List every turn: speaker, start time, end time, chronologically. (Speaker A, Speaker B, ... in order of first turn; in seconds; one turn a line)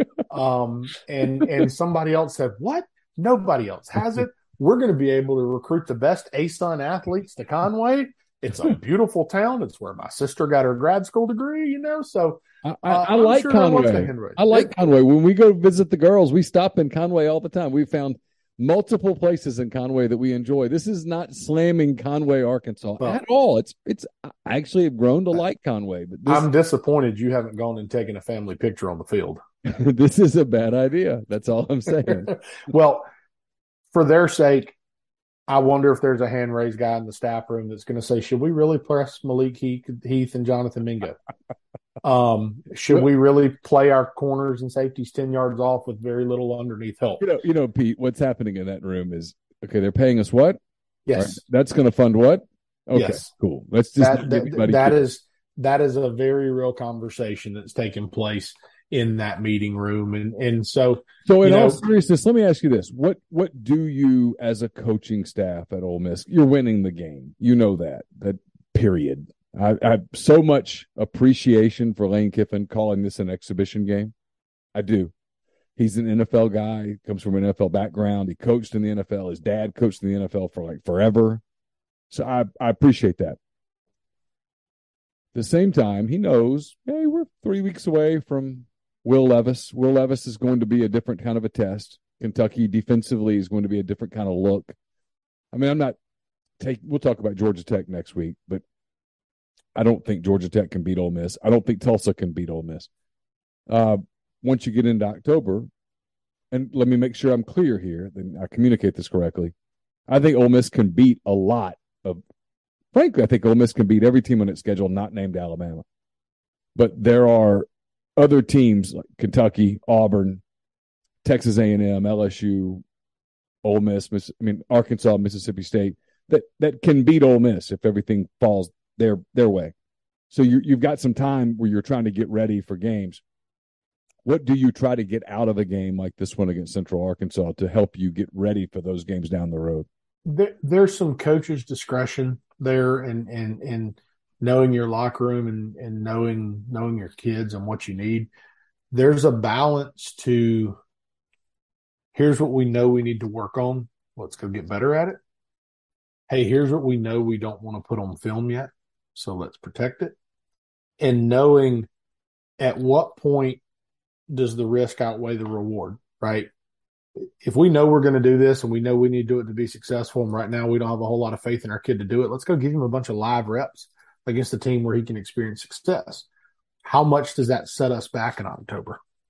Speaker A: 0.3-14.7
Speaker B: 12.6-26.5
Speaker A: 26.3-29.4
Speaker B: 29.6-32.3
Speaker A: 32.7-33.1
Speaker A: 33.9-34.8
Speaker A: 35.5-41.2
Speaker A: 42.0-47.2
Speaker B: 47.2-50.6
Speaker A: 51.1-51.4
Speaker B: 51.1-55.0
Speaker A: 53.0-53.3
Speaker A: 54.0-61.8
Speaker B: 61.2-74.1
Speaker B: 74.8-75.1
Speaker B: 75.8-81.4
Speaker B: 82.1-83.4
Speaker B: 85.3-94.8
Speaker B: 95.5-96.0
Speaker B: 96.6-98.6
Speaker B: 99.8-102.9
Speaker B: 103.7-105.7
Speaker B: 106.5-109.5
Speaker B: 110.1-112.2
Speaker B: 112.9-115.8
Speaker B: 116.8-120.4
Speaker B: 121.2-122.8
Speaker B: 123.6-129.7
Speaker B: 130.3-133.2
Speaker B: 134.2-139.9
Speaker A: 140.3-148.3
Speaker A: 148.9-150.8
Speaker A: 152.1-155.2
Speaker A: 156.3-160.2
Speaker A: 161.0-161.9
Speaker A: 162.6-163.6
Speaker A: 164.3-166.5
Speaker A: 167.4-176.3
Speaker A: 176.8-179.0